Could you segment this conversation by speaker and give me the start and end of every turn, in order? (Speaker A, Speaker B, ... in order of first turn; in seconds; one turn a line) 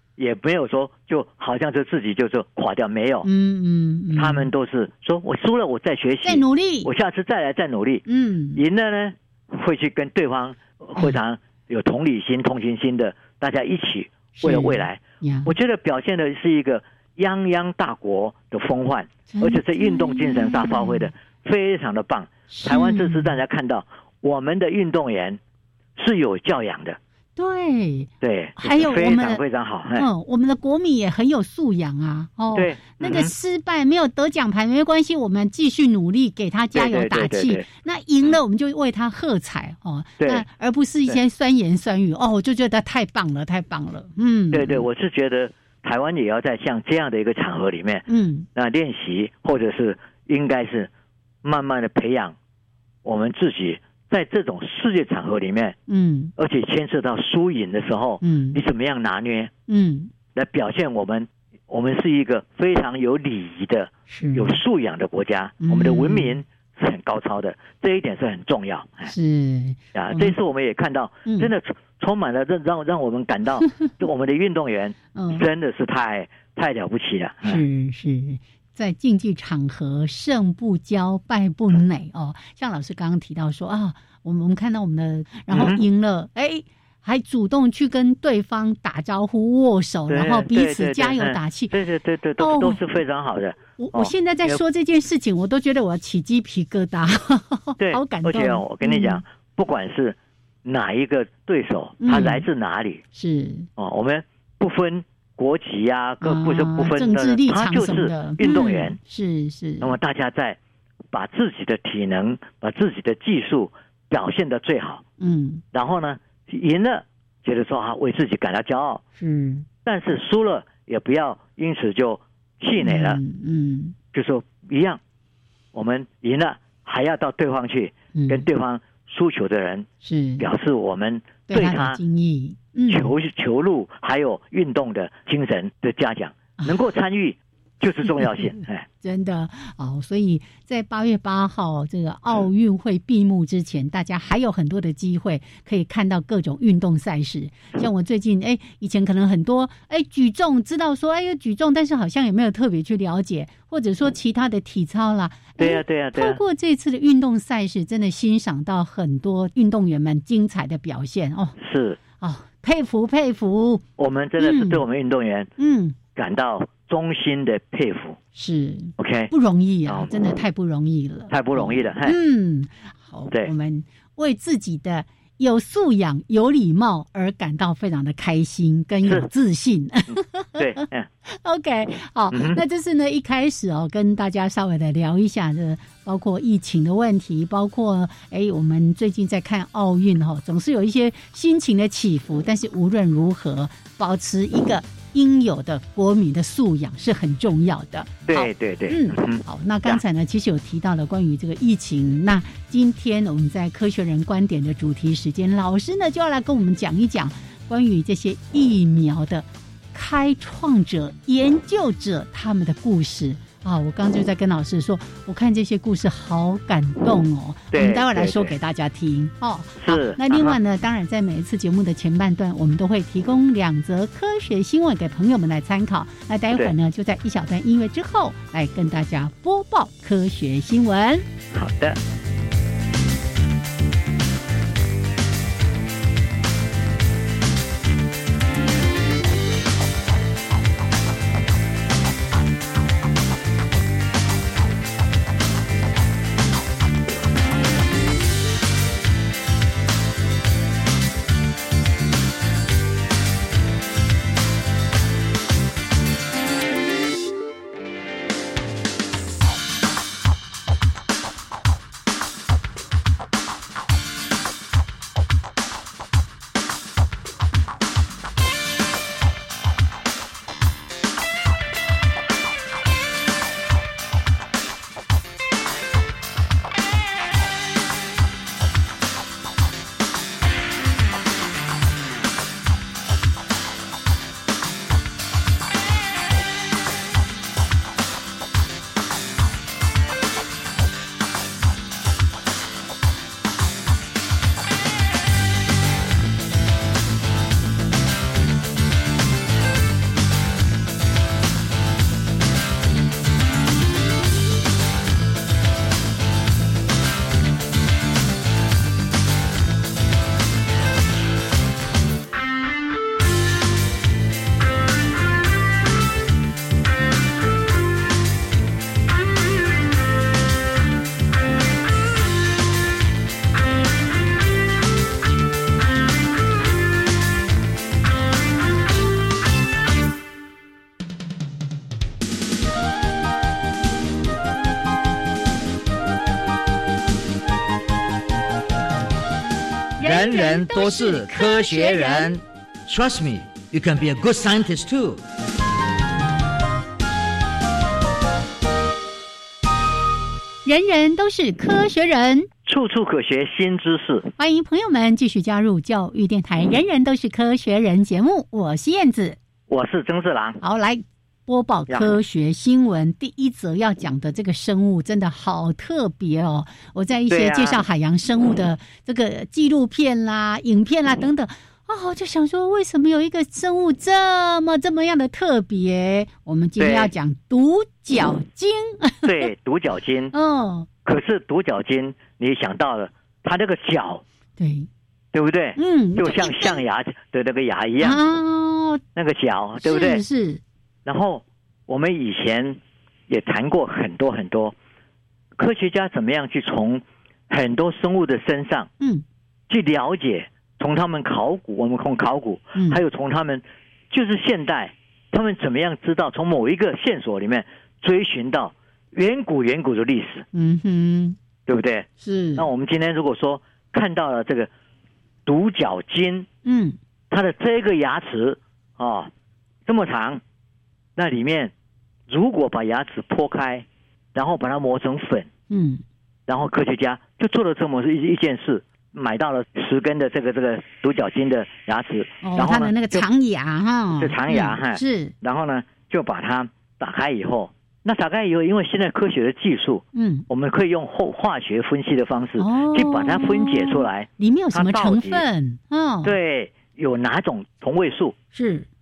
Speaker A: 0.2-3.3
Speaker B: 3.2-4.5
Speaker A: 4.2-25.4
Speaker B: 6.2-6.9
Speaker B: 8.1-8.6
Speaker B: 14.4-15.5
Speaker B: 19.3-21.1
Speaker B: 22.5-23.4
Speaker A: 25.9-27.0
Speaker B: 27.4-29.4
Speaker A: 28.2-30.1
Speaker B: 30.0-44.9
Speaker A: 32.5-33.3
Speaker A: 36.7-37.6
Speaker A: 40.2-40.4
Speaker A: 44.5-50.9
Speaker B: 48.1-48.5
Speaker A: 51.4-52.3
Speaker A: 53.0-55.8
Speaker B: 55.9-56.3
Speaker A: 56.4-59.5
Speaker B: 58.2-58.6
Speaker B: 59.7-60.1
Speaker A: 60.3-69.1
Speaker B: 64.1-64.6
Speaker B: 65.6-66.4
Speaker B: 69.1-70.3
Speaker A: 69.9-77.6
Speaker B: 71.2-71.5
Speaker B: 75.1-75.5
Speaker B: 77.4-91.7
Speaker A: 85.5-85.8
Speaker A: 90.1-94.6
Speaker B: 92.4-92.8
Speaker B: 93.8-99.2
Speaker A: 97.8-103.0
Speaker B: 102.0-102.5
Speaker B: 103.1-103.7
Speaker A: 103.8-109.0
Speaker B: 106.2-110.0
Speaker A: 109.8-110.6
Speaker A: 111.1-115.0
Speaker B: 115.2-115.6
Speaker A: 115.7-119.0
Speaker B: 119.2-119.7
Speaker A: 119.8-123.2
Speaker B: 122.8-123.9
Speaker A: 124.1-125.0
Speaker A: 125.7-129.8
Speaker B: 128.1-128.4
Speaker B: 130.0-130.5
Speaker A: 130.4-132.0
Speaker B: 131.5-133.2
Speaker A: 132.9-138.8
Speaker B: 138.1-161.6
Speaker A: 155.6-156.4
Speaker A: 161.6-162.0
Speaker B: 162.2-163.8
Speaker A: 164.0-165.5
Speaker B: 164.4-164.8
Speaker B: 165.6-166.0
Speaker A: 166.1-168.2
Speaker B: 168.3-231.2
Speaker A: 169.0-169.3
Speaker A: 169.9-170.2
Speaker A: 171.3-172.2
Speaker A: 180.6-181.1
Speaker A: 182.3-182.6
Speaker A: 198.3-200.0
Speaker A: 217.7-218.5
Speaker A: 219.8-220.6
Speaker A: 231.5-232.0
Speaker B: 340.0-342.3
Speaker C: 340.0-345.2
Speaker B: 350.6-352.5
Speaker A: 352.6-354.3
Speaker B: 354.4-359.4
Speaker A: 359.7-360.6
Speaker B: 360.6-379.5
Speaker A: 361.9-362.1
Speaker A: 367.3-367.8
Speaker A: 376.8-377.1
Speaker A: 379.2-380.3
Speaker B: 380.3-380.9
Speaker A: 381.0-384.2
Speaker B: 384.6-384.9
Speaker A: 385.3-388.2
Speaker B: 385.8-386.8
Speaker B: 388.0-389.0
Speaker A: 389.1-390.2
Speaker B: 389.8-390.6
Speaker A: 391.0-394.7
Speaker A: 395.6-398.9
Speaker A: 399.7-410.4
Speaker B: 402.7-403.0
Speaker B: 410.5-411.4
Speaker A: 411.7-414.7
Speaker B: 412.2-412.7
Speaker A: 415.4-416.5
Speaker B: 416.6-417.0
Speaker A: 417.3-419.3
Speaker A: 419.9-420.4
Speaker A: 421.1-421.7
Speaker A: 422.3-425.5
Speaker B: 425.7-426.0
Speaker A: 426.5-433.2
Speaker B: 432.4-435.3
Speaker A: 434.2-445.4
Speaker B: 440.1-440.4
Speaker B: 442.6-446.3
Speaker A: 446.2-448.3
Speaker B: 448.5-448.9